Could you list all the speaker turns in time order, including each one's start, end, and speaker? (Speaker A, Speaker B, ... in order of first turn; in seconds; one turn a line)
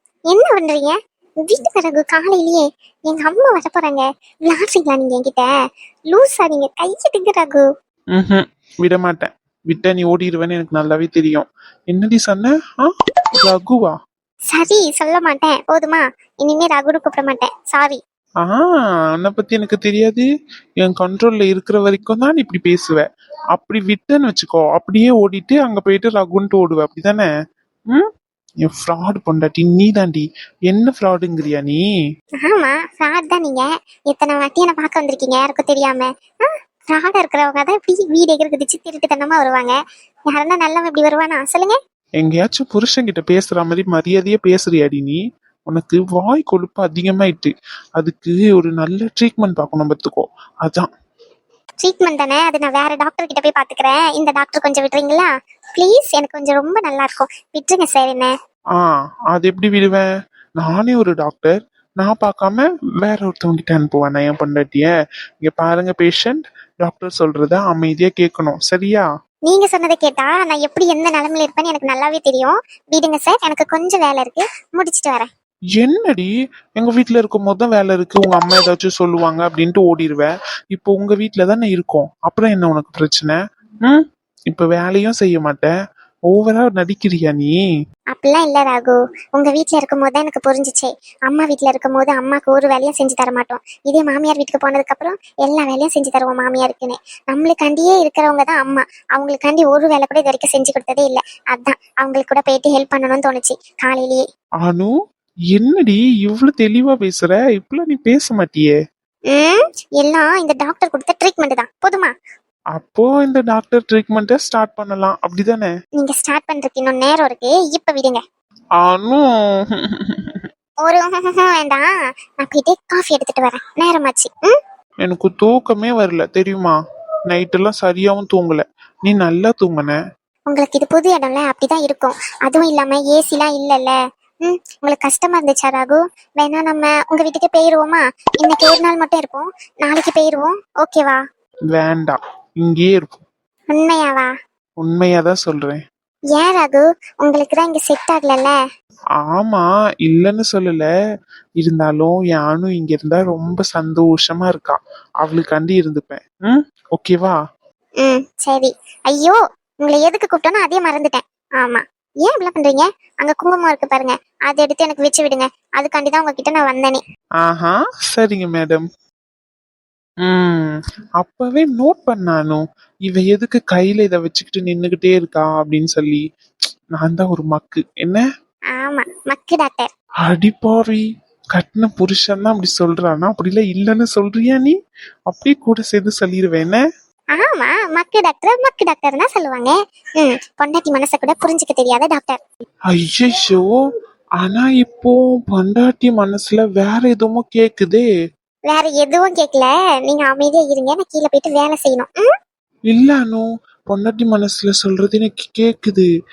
Speaker A: 0.3-5.5
Speaker A: 6.1-7.7
Speaker B: 8.2-13.9
Speaker A: 14.5-18.0
Speaker B: 18.4-20.3
Speaker B: 20.8-27.3
Speaker B: 28.6-31.8
Speaker A: 32.4-39.8
Speaker A: 40.3-41.8
Speaker B: 42.2-50.9
Speaker A: 51.8-58.3
Speaker B: 58.8-60.1
Speaker B: 60.6-69.0
Speaker A: 69.5-75.3
Speaker B: 75.8-85.7
Speaker B: 86.3-87.5
Speaker A: 88.1-104.2
Speaker B: 104.6-104.9
Speaker B: 105.5-108.8
Speaker A: 109.3-112.1
Speaker B: 112.8-115.7
Speaker A: 116.0-118.2
Speaker B: 118.8-120.5
Speaker A: 120.9-121.9
Speaker A: 122.4-124.6
Speaker B: 125.0-126.8
Speaker B: 127.3-130.0
Speaker A: 130.5-141.2
Speaker B: 141.7-143.2
Speaker A: 143.7-144.3
Speaker B: 144.8-145.8
Speaker A: 146.3-148.6
Speaker B: 149.3-150.9
Speaker B: 151.6-157.4
Speaker A: 158.0-167.0
Speaker B: 167.4-168.9
Speaker B: 170.2-176.2
Speaker B: 177.0-178.2
Speaker A: 178.7-179.9
Speaker B: 180.2-184.8
Speaker B: 185.3-186.8
Speaker A: 187.3-192.4
Speaker B: 192.9-193.7
Speaker B: 194.4-198.1
Speaker A: 198.7-202.3
Speaker B: 202.9-206.1